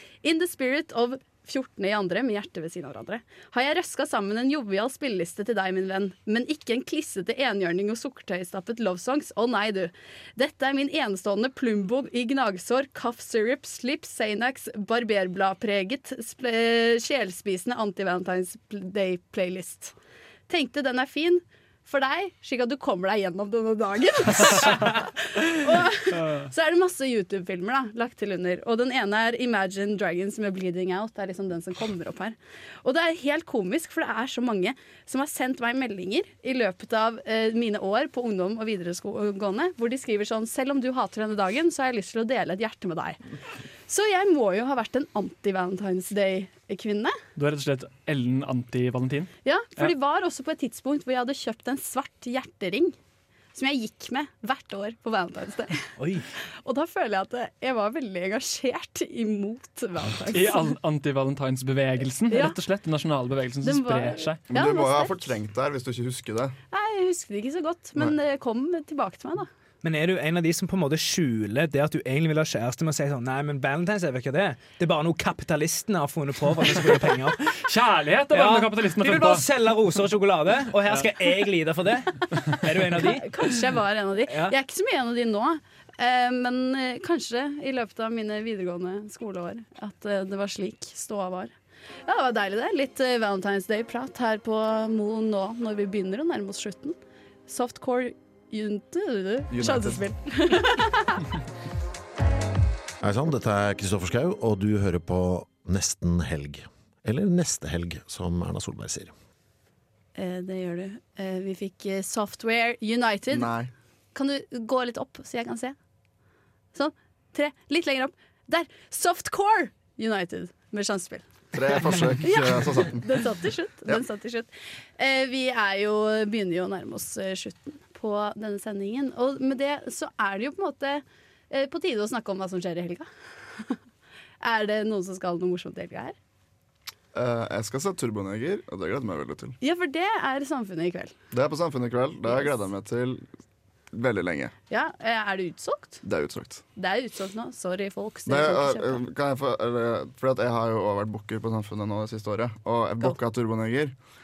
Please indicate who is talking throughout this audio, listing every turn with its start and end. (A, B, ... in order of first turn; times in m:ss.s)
0:00.2-0:19.9 A
0:20.5-0:43.2 A
0:43.9-0:47.1 A
0:47.4-0:49.9 B
0:49.4-0:53.0 A
0:53.5-0:55.8 A
0:56.0-0:56.2 C
0:56.6-1:00.7 A
1:00.3-1:04.4 B
1:02.3-1:02.6 A
1:03.6-1:05.3 A
1:04.5-1:06.5 D
1:06.7-1:09.5 A
1:09.8-1:17.5 C
1:17.6-1:19.5 B
1:18.3-1:23.3 C
1:22.9-1:31.5 A
1:24.3-1:24.5 C
1:32.0-1:37.0 A
1:37.5-1:41.2 A
1:39.5-1:40.0 D
1:43.0-1:49.1 E
1:50.2-1:53.5 A
1:53.3-1:53.7 D
1:54.1-1:55.7 A
1:56.7-2:01.3 A
2:01.5-2:03.1 D
2:02.0-2:13.1 A
2:14.4-2:16.2 A
2:17.1-2:19.6 D
2:19.6-2:21.1 A
2:21.3-2:23.2 D
2:22.3-2:22.5 A
2:23.9-2:24.5 D
2:24.7-2:26.0 A
2:26.0-2:26.6 D
2:26.8-2:29.0 A
2:28.3-2:33.9 D